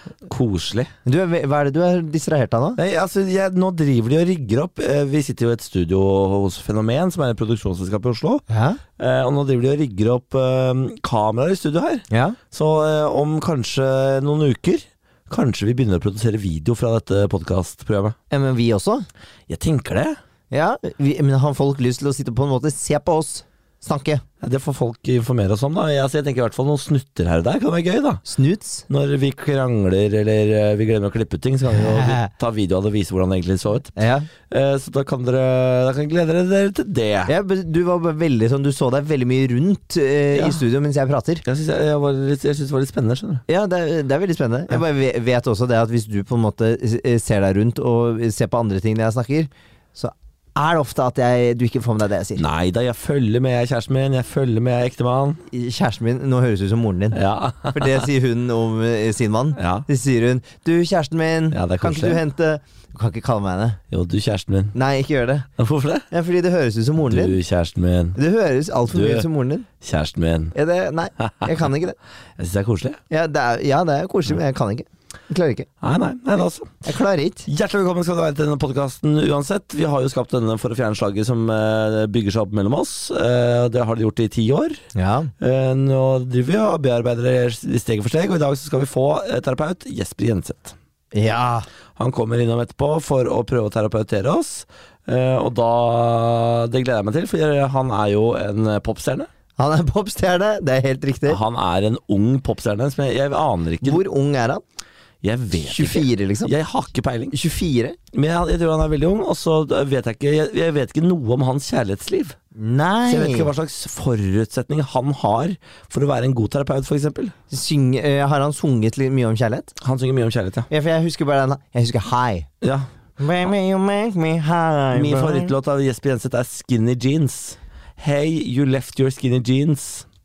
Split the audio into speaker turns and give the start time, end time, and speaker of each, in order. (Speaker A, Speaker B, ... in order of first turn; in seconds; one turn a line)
Speaker A: 0.3-0.9
Speaker B: 1.0-2.8
Speaker A: 2.8-8.4
Speaker B: 8.5-8.8
Speaker A: 9.0-18.2
Speaker B: 12.1-12.4
Speaker B: 18.3-19.0
Speaker A: 19.5-20.2
Speaker B: 20.5-24.2
Speaker A: 24.4-28.2
Speaker B: 28.2-28.9
Speaker A: 28.9-37.3
Speaker B: 31.8-32.3
Speaker B: 34.0-34.3
Speaker B: 37.2-41.4
Speaker A: 40.3-40.6
Speaker A: 41.4-43.4
Speaker B: 43.5-52.4
Speaker A: 52.3-55.4
Speaker B: 55.5-57.2
Speaker A: 57.1-58.0
Speaker B: 57.7-63.8
Speaker A: 59.5-59.9
Speaker A: 61.5-62.2
Speaker A: 63.9-64.7
Speaker B: 64.7-65.5
Speaker A: 65.6-66.1
Speaker B: 66.1-67.4
Speaker A: 67.0-68.2
Speaker B: 68.2-69.7
Speaker A: 68.9-69.2
Speaker A: 69.8-70.5
Speaker B: 70.5-72.0
Speaker A: 71.2-71.6
Speaker A: 72.4-73.0
Speaker B: 73.1-75.7
Speaker A: 75.8-76.7
Speaker B: 76.8-77.5
Speaker A: 77.5-84.8
Speaker B: 84.9-85.3
Speaker A: 85.4-90.8
Speaker B: 91.1-91.7
Speaker A: 92.0-99.3
Speaker B: 99.6-101.4
Speaker A: 101.3-104.0
Speaker B: 103.8-104.6
Speaker A: 105.2-107.3
Speaker B: 105.6-106.5
Speaker B: 107.3-108.0
Speaker A: 108.1-112.3
Speaker B: 112.5-113.5
Speaker A: 113.1-117.3
Speaker B: 117.5-119.7
Speaker A: 119.8-120.7
Speaker B: 120.7-122.5
Speaker A: 122.6-122.9
Speaker B: 123.2-125.5
Speaker A: 124.9-130.1